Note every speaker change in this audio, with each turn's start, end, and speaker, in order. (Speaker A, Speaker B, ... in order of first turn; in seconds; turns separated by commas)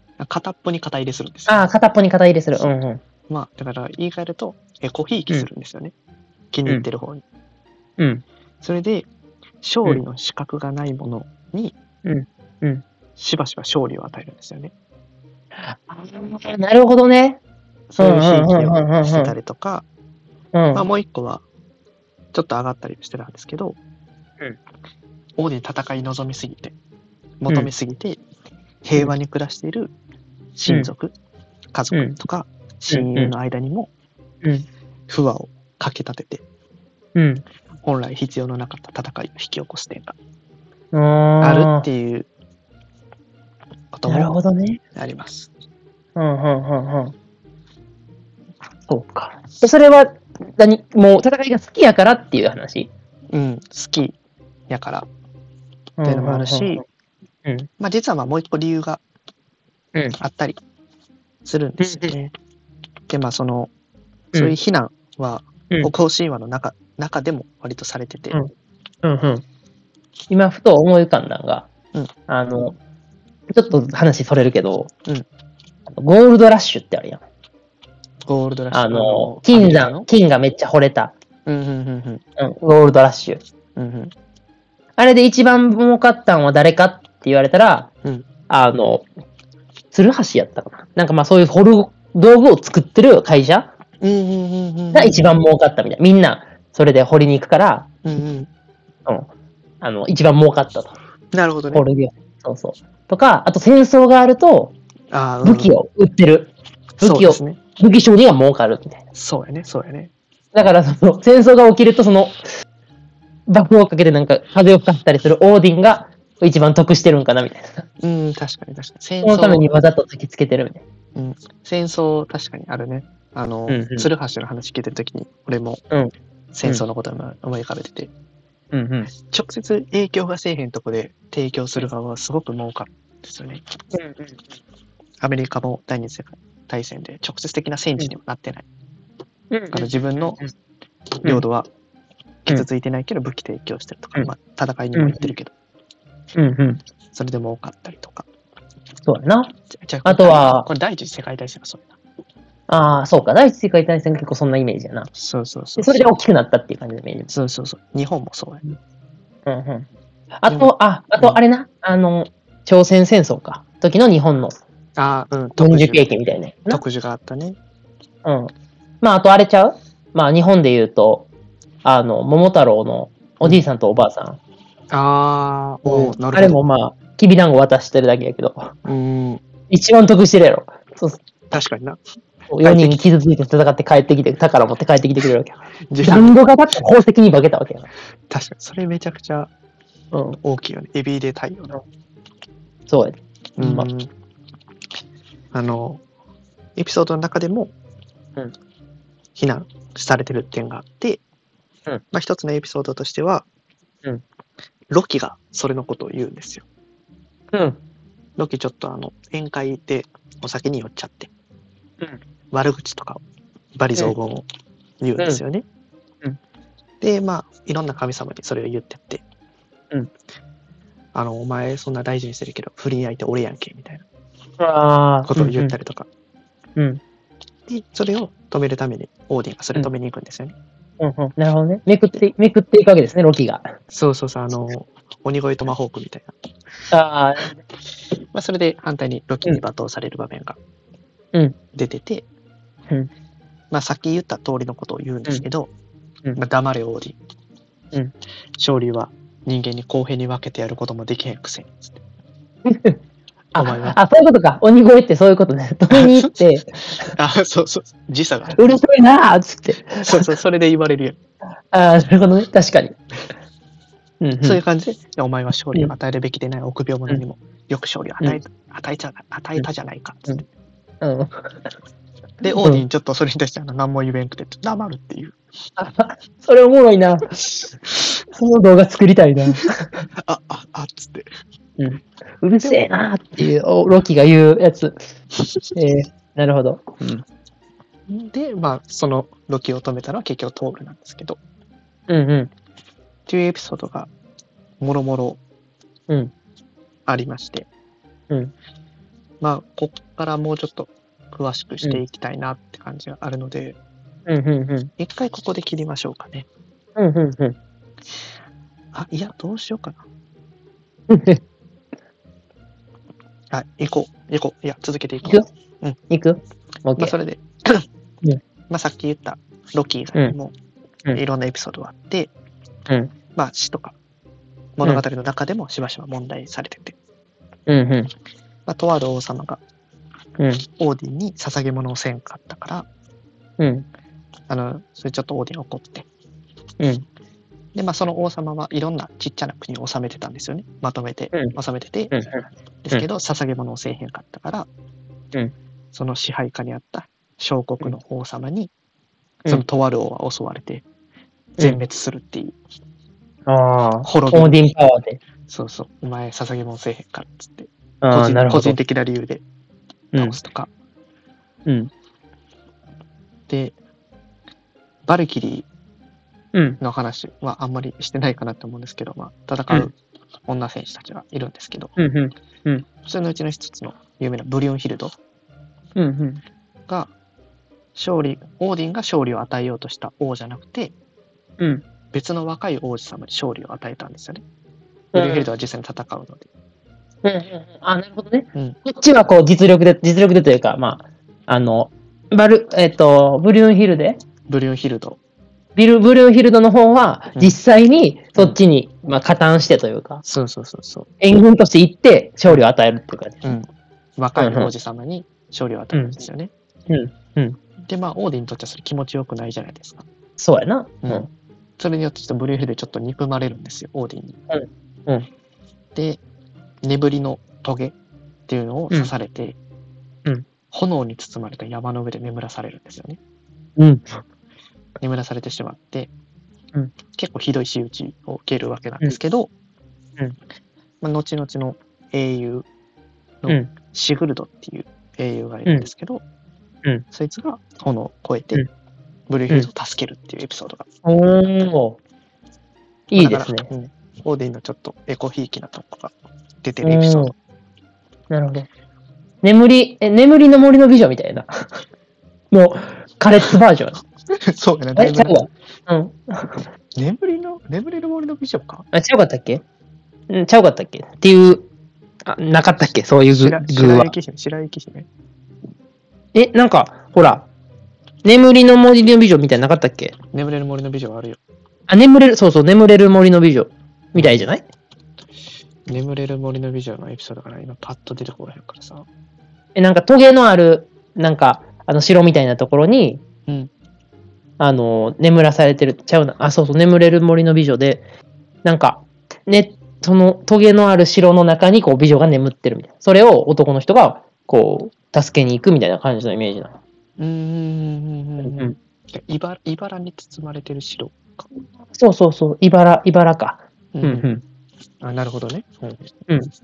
Speaker A: 0.2-1.7, Speaker B: 1.5-3.0, Speaker A: 3.3-5.9, Speaker A: 6.5-7.2, Speaker B: 8.0-8.2, Speaker A: 8.6-9.1, Speaker A: 9.6-11.8, Speaker B: 12.1-12.8, Speaker A: 13.2-14.7, Speaker B: 15.6-17.4, Speaker A: 17.9-19.9, Speaker B: 18.0-19.3, Speaker B: 20.5-20.8, Speaker A: 20.7-21.4, Speaker A: 22.3-23.8, Speaker A: 25.4-26.8, Speaker A: 27.4-28.2, Speaker A: 28.9-29.9, Speaker A: 30.6-31.1, Speaker A: 31.7-33.9, Speaker B: 32.9-33.3, Speaker A: 35.1-36.4, Speaker B: 37.1-37.4, Speaker A: 37.8-40.2, Speaker B: 40.9-41.9, Speaker A: 41.4-42.3, Speaker A: 43.9-44.3, Speaker B: 44.1-44.8, Speaker A: 45.0-45.5, Speaker B: 46.2-47.1, Speaker B: 48.9-52.9, Speaker A: 53.3-54.2, Speaker A: 54.7-55.1, Speaker B: 56.0-56.8, Speaker A: 56.0-56.8, Speaker A: 57.8-59.0, Speaker A: 60.2-60.6, Speaker A: 61.5-62.3, Speaker B: 61.8-62.1, Speaker A: 63.1-63.7, Speaker A: 64.3-68.4, Speaker B: 69.0-69.4, Speaker B: 70.3-71.7, Speaker B: 72.3-72.8, Speaker B: 73.5-74.9, Speaker B: 75.9-77.2, Speaker A: 78.2-80.1, Speaker B: 78.7-81.1, Speaker A: 81.5-82.2, Speaker B: 82.4-83.4, Speaker A: 83.8-84.1, Speaker B: 85.0-87.9, Speaker B: 88.5-89.1, Speaker B: 89.9-93.7, Speaker A: 94.0-95.2, Speaker B: 94.9-97.9, Speaker A: 98.0-98.5, Speaker B: 99.8-100.9, Speaker A: 101.3-101.8, Speaker B: 101.7-104.8, Speaker A: 105.1-105.8, Speaker B: 105.4-109.0, Speaker A: 107.0-107.6, Speaker A: 109.2-110.1, Speaker B: 110.5-112.4, Speaker B: 113.5-117.9, Speaker A: 118.0-119.7, Speaker B: 119.2-120.8, Speaker A: 121.2-125.8, Speaker B: 123.7-124.1, Speaker A: 126.5-128.1, Speaker B: 128.7-129.1, Speaker A: 129.2-133.6, Speaker B: 133.9-134.4, Speaker A: 135.2-138.7, Speaker B: 139.5-139.9, Speaker A: 139.7-140.4, Speaker A: 141.2-141.7, Speaker A: 142.4-145.5, Speaker B: 144.9-145.3, Speaker B: 146.4-146.8, Speaker A: 147.1-148.3, Speaker B: 149.1-149.5, Speaker A: 149.7-152.0, Speaker B: 150.1-150.7, Speaker B: 152.7-155.1, Speaker A: 155.2-156.1, Speaker B: 155.8-157.3, Speaker A: 157.3-158.6, Speaker B: 159.5-164.6, Speaker A: 160.5-161.4, Speaker A: 165.0-166.1, Speaker B: 165.6-166.8, Speaker A: 166.7-167.6, Speaker B: 168.2-171.3, Speaker B: 171.8-174.4, Speaker A: 174.9-176.6, Speaker B: 175.8-178.8, Speaker A: 178.8-179.4, Speaker B: 179.7-181.2, Speaker A: 181.5-182.0, Speaker B: 182.5-187.9, Speaker A: 182.6-183.0, Speaker A: 185.9-186.4, Speaker A: 188.3-189.5, Speaker B: 190.1-190.4, Speaker A: 190.4-191.8, Speaker B: 192.9-193.9, Speaker A: 193.6-194.1, Speaker A: 195.5-196.0, Speaker A: 196.8-197.7, Speaker A: 199.3-201.2, Speaker A: 202.1-203.5, Speaker A: 204.9-206.7, Speaker B: 207.5-207.8, Speaker A: 208.4-211.3, Speaker A: 212.5-213.2, Speaker A: 213.8-214.5, Speaker A: 215.0-215.7, Speaker A: 217.0-219.2, Speaker A: 221.1-224.1, Speaker B: 224.6-225.8, Speaker A: 225.3-226.1, Speaker B: 226.8-227.0, Speaker A: 227.7-230.6, Speaker B: 231.0-233.7, Speaker A: 233.9-236.3, Speaker B: 236.9-237.6, Speaker A: 238.3-240.6, Speaker A: 241.7-242.3, Speaker A: 243.7-245.7, Speaker A: 246.3-247.2, Speaker A: 248.6-252.0, Speaker B: 252.7-253.0, Speaker B: 253.5-257.1, Speaker A: 253.6-254.0, Speaker A: 255.9-256.4, Speaker A: 257.0-258.7, Speaker B: 258.5-260.3, Speaker A: 260.0-261.2, Speaker B: 261.7-263.0, Speaker B: 264.2-264.6, Speaker A: 264.4-270.5, Speaker B: 271.0-271.7, Speaker A: 272.4-275.4, Speaker B: 275.8-277.8, Speaker B: 278.3-280.1, Speaker A: 280.2-281.3, Speaker B: 281.8-285.0, Speaker B: 285.8-287.2, Speaker A: 288.1-291.4, Speaker B: 292.1-292.5, Speaker A: 293.3-294.1, Speaker A: 294.8-295.4, Speaker A: 297.1-297.7, Speaker A: 299.4-303.8, Speaker B: 304.3-304.9, Speaker A: 305.0-306.5, Speaker B: 307.0-307.6, Speaker A: 308.9-310.0, Speaker B: 311.1-311.4, Speaker A: 313.5-316.0, Speaker B: 316.1-317.1, Speaker A: 317.0-317.9, Speaker A: 318.7-320.5, Speaker A: 321.1-322.3, Speaker A: 323.4-324.0, Speaker A: 324.8-327.0, Speaker B: 327.7-328.1, Speaker A: 328.7-329.6, Speaker B: 330.4-330.6, Speaker A: 330.8-332.9, Speaker B: 333.6-333.9, Speaker A: 334.5-336.1, Speaker B: 336.8-337.1, Speaker A: 337.8-342.2, Speaker B: 342.1-343.1, Speaker A: 342.8-344.7, Speaker A: 345.9-348.7, Speaker A: 349.5-350.9, Speaker A: 351.6-352.6, Speaker B: 353.5-355.2, Speaker A: 354.0-354.6, Speaker A: 355.5-359.4, Speaker B: 358.0-358.8, Speaker A: 360.1-360.7, Speaker B: 361.7-361.9, Speaker A: 363.5-363.8, Speaker A: 365.1-365.7, Speaker B: 366.5-366.8, Speaker A: 366.8-369.9, Speaker A: 370.5-372.0, Speaker B: 372.0-372.9, Speaker A: 373.0-375.2, Speaker B: 376.0-376.4, Speaker A: 378.0-380.9, Speaker B: 381.6-381.8, Speaker A: 382.1-384.4, Speaker B: 385.1-385.5, Speaker A: 385.1-386.5, Speaker B: 387.2-394.2, Speaker A: 394.5-395.2, Speaker B: 395.8-400.2, Speaker A: 400.2-401.1, Speaker B: 401.2-403.5, Speaker A: 403.4-406.5, Speaker B: 404.4-404.7, Speaker B: 406.9-407.6, Speaker A: 407.9-410.1, Speaker B: 410.4-411.3, Speaker A: 411.8-414.4, Speaker B: 414.5-415.3, Speaker A: 415.9-416.2, Speaker A: 416.8-418.0, Speaker A: 418.5-419.6, Speaker A: 420.7-423.2, Speaker B: 423.8-424.2, Speaker A: 425.0-426.1, Speaker A: 427.1-429.5, Speaker A: 431.0-432.7, Speaker A: 433.4-436.2, Speaker A: 437.1-438.7, Speaker A: 439.3-440.9, Speaker B: 441.1-442.0, Speaker B: 443.1-443.7, Speaker A: 443.1-447.4, Speaker B: 446.8-447.3, Speaker B: 448.3-448.7, Speaker B: 449.4-451.5, Speaker B: 452.5-454.0, Speaker A: 454.4-455.4, Speaker B: 455.0-456.7, Speaker A: 457.0-458.9, Speaker B: 458.9-459.6, Speaker B: 460.3-461.7, Speaker B: 462.2-464.1, Speaker A: 463.3-465.1, Speaker B: 466.3-467.5, Speaker B: 468.2-470.2, Speaker A: 470.3-471.4, Speaker B: 471.9-474.6, Speaker A: 475.9-479.1, Speaker B: 479.8-483.2, Speaker B: 484.6-488.0, Speaker B: 488.6-496.8, Speaker A: 497.2-501.5, Speaker B: 498.4-498.8, Speaker B: 501.9-504.4, Speaker A: 503.9-504.3, Speaker A: 505.0-506.1